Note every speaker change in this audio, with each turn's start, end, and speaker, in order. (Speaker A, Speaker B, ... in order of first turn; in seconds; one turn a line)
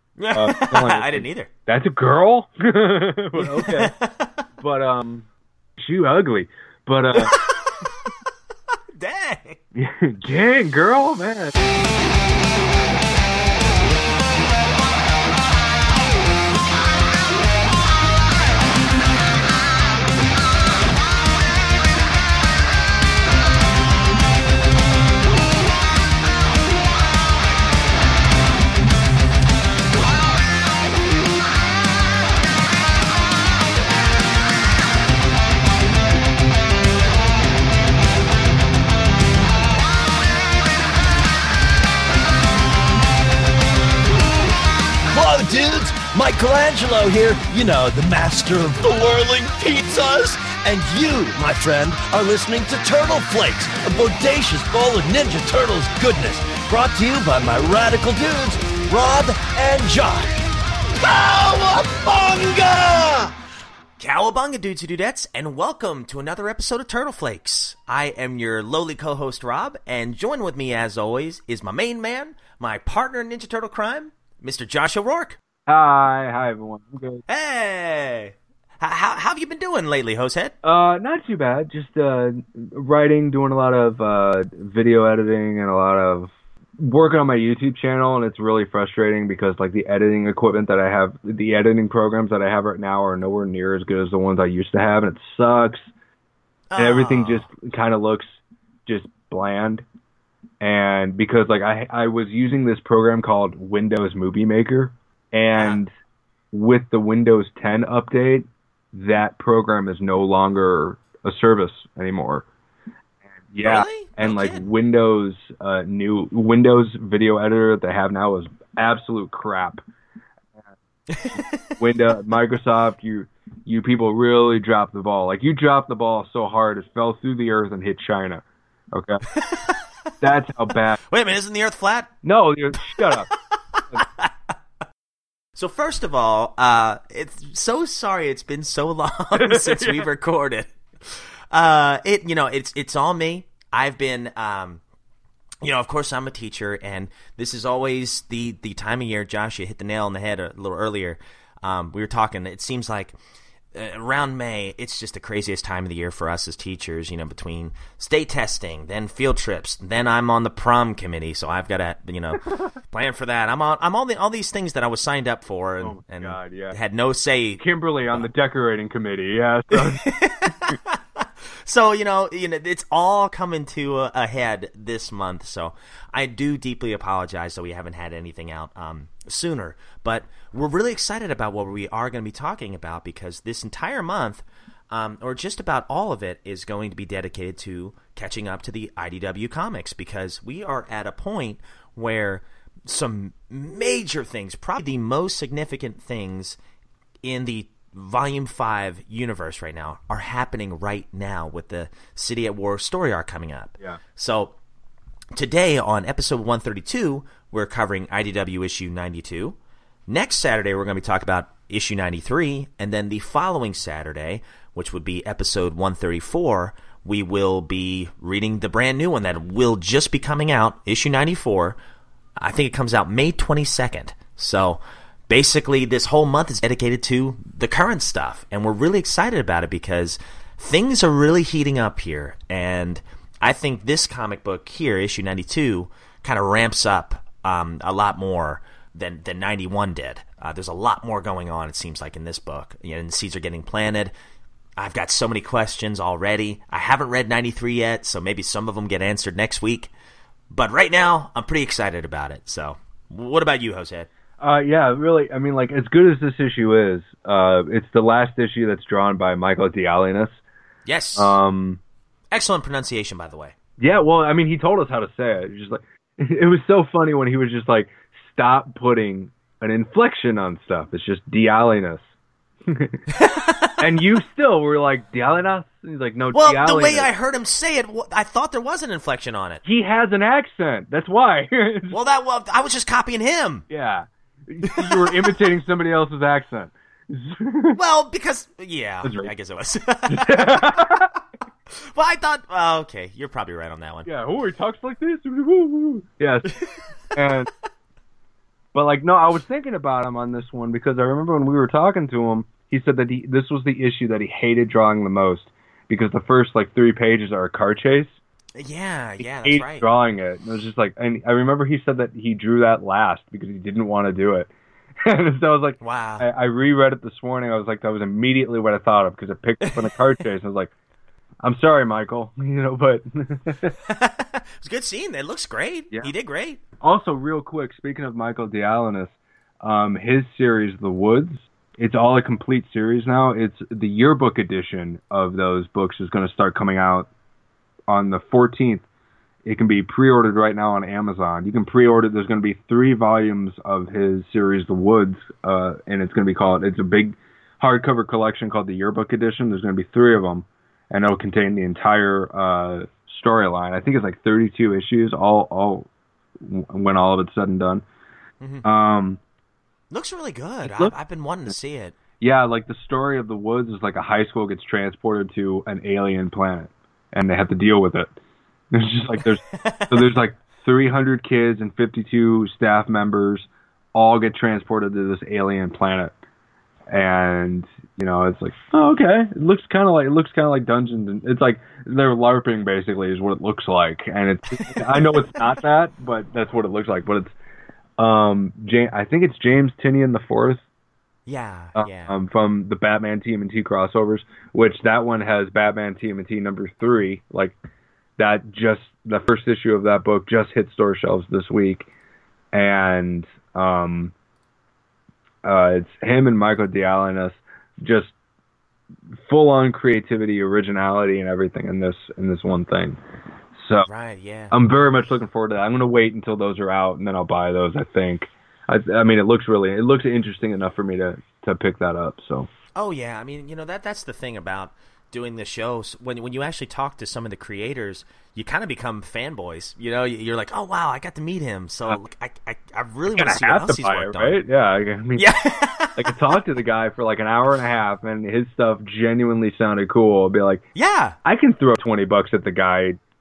Speaker A: 0.2-1.5
Speaker B: 0.3-3.9
Speaker A: 3.4-4.4
Speaker B: 4.6-5.3
Speaker B: 5.8-7.4
Speaker A: 7.1-8.1
Speaker A: 8.7-9.6
Speaker B: 9.7-11.5
Speaker C: 45.1-60.4
Speaker C: 61.0-63.3
Speaker A: 64.0-75.4
Speaker B: 75.7-77.2
Speaker A: 77.3-80.5
Speaker B: 80.6-95.9
Speaker A: 96.7-97.5
Speaker B: 96.8-99.8
Speaker B: 100.6-105.9
Speaker B: 106.5-112.5
Speaker B: 113.5-119.8
Speaker A: 113.6-114.6
Speaker A: 121.1-121.8
Speaker B: 121.3-129.2
Speaker A: 129.3-129.9
Speaker B: 130.2-131.0
Speaker A: 131.0-132.1
Speaker B: 132.2-133.3
Speaker A: 132.8-134.3
Speaker A: 135.6-144.8
Speaker B: 139.4-140.0
Speaker A: 145.6-153.2
Speaker A: 153.7-168.3
Speaker B: 165.8-166.8
Speaker B: 167.6-170.1
Speaker A: 169.7-196.6
Speaker A: 197.2-204.5
Speaker A: 205.3-209.6
Speaker A: 210.1-221.8
Speaker A: 222.4-244.1
Speaker A: 244.8-249.9
Speaker A: 250.5-254.1
Speaker B: 254.4-260.4
Speaker A: 260.9-261.4
Speaker B: 261.1-261.8
Speaker A: 262.3-263.5
Speaker B: 263.8-272.0
Speaker B: 272.7-273.0
Speaker A: 273.1-273.9
Speaker B: 273.8-277.1
Speaker A: 276.3-279.6
Speaker B: 279.6-281.9
Speaker A: 281.9-283.6
Speaker B: 283.7-287.8
Speaker A: 284.7-285.4
Speaker A: 287.7-291.1
Speaker B: 289.0-289.3
Speaker B: 290.1-291.1
Speaker A: 291.7-294.1
Speaker B: 294.1-296.5
Speaker B: 297.1-297.5
Speaker B: 298.7-308.1
Speaker A: 308.6-309.9
Speaker B: 309.2-314.5
Speaker B: 315.0-320.7
Speaker A: 315.8-316.3
Speaker B: 321.4-323.7
Speaker A: 323.9-326.6
Speaker B: 326.8-337.1
Speaker B: 337.9-338.8
Speaker B: 339.4-355.9
Speaker B: 356.4-357.8
Speaker B: 358.6-359.2
Speaker A: 359.9-362.0
Speaker B: 360.6-360.9
Speaker B: 362.2-368.1
Speaker B: 368.7-376.1
Speaker A: 369.5-370.2
Speaker B: 376.9-387.3
Speaker A: 384.7-385.4
Speaker B: 388.0-390.6
Speaker A: 391.3-392.1
Speaker B: 391.8-397.5
Speaker B: 398.2-401.9
Speaker B: 402.5-404.1
Speaker B: 405.4-408.1
Speaker B: 409.2-413.0
Speaker B: 413.6-413.9
Speaker A: 413.9-414.5
Speaker B: 414.5-422.5
Speaker A: 422.8-434.4
Speaker B: 433.1-435.3
Speaker A: 435.1-436.4
Speaker B: 435.9-440.6
Speaker A: 440.7-441.1
Speaker B: 441.2-443.0